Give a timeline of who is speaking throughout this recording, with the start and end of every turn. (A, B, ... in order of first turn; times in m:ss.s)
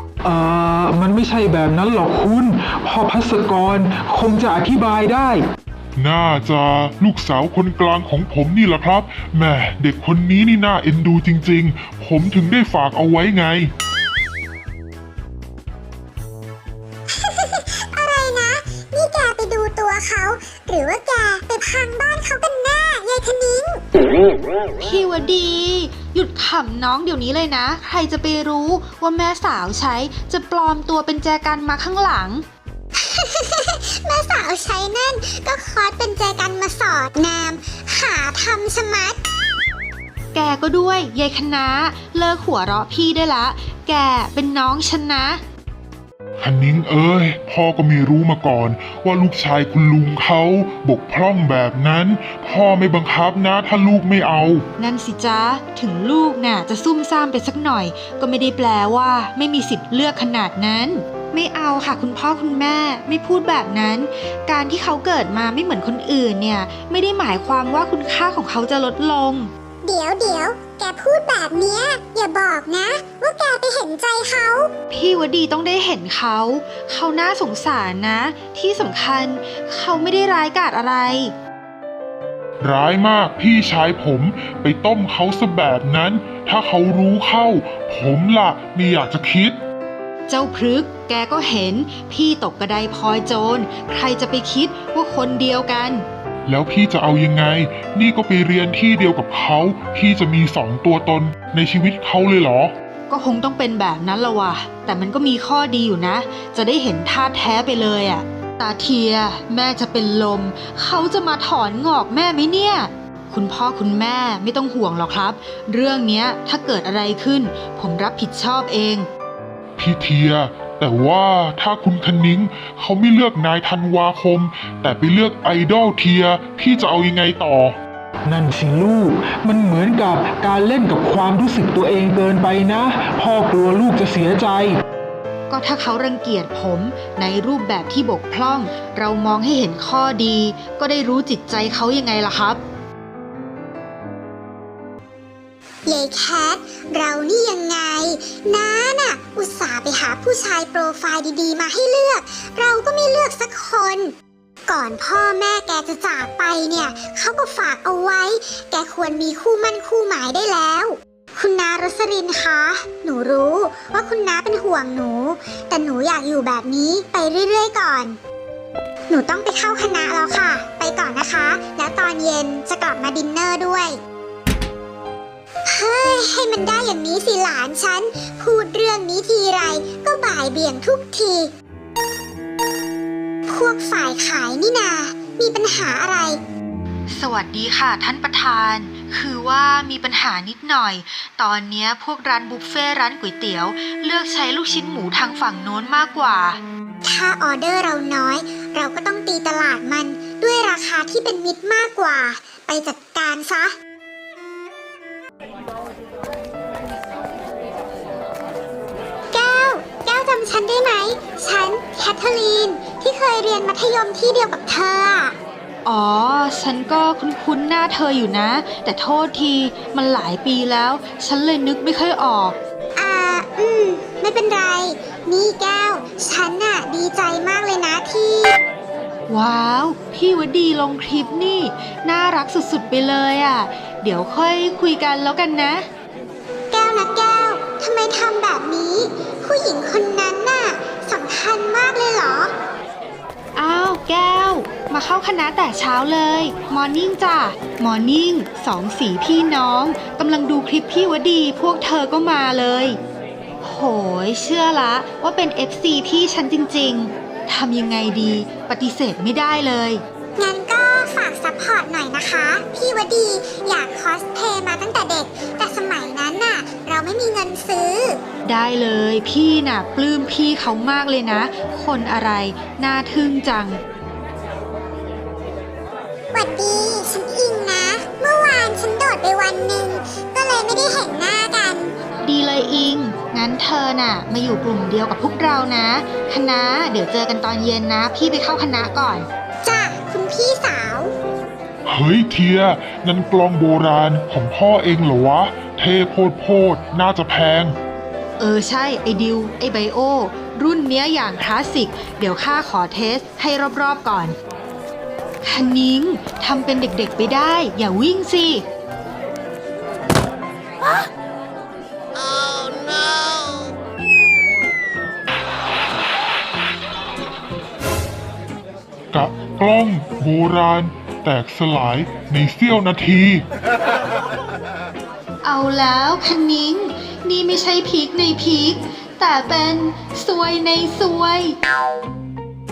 0:00.2-0:05.4 A
0:06.0-0:13.7 B
0:17.1-0:23.8 C
0:24.8-0:32.4 D
0:33.0-0:39.2 C
0:40.3-0:45.4 D
0:46.4-0:54.7 B
0:54.8-1:09.5 D
1:09.8-1:14.7 C
1:14.9-1:21.3 D
1:22.6-1:29.6 B
1:30.3-1:36.0 D
1:36.5-1:42.7 B
1:43.1-1:59.1 D
1:59.8-2:07.8 B
2:08.2-2:14.8 A
2:15.5-2:22.6 D
2:25.8-2:34.1 C
2:34.7-2:48.2 C
2:49.1-2:54.0 C
2:55.7-3:01.5 C
3:03.5-3:06.4 C
3:07.1-3:16.6 D
3:17.0-3:23.7 C
3:29.3-3:35.4 C
3:35.8-3:42.6 D
3:43.0-3:48.6 C
3:49.3-3:55.8 D
3:56.7-4:02.5 C
4:03.6-4:13.0 D
4:13.6-4:20.0 D
4:20.4-4:28.2 C
4:28.4-4:33.8 D
4:36.3-4:42.0 C
4:42.2-4:49.3 D
4:49.6-4:51.1 C
4:51.8-4:57.7 B
4:58.4-5:04.4 D
5:05.4-5:08.6 D
5:19.1-5:23.4 B
5:25.4-5:31.5 D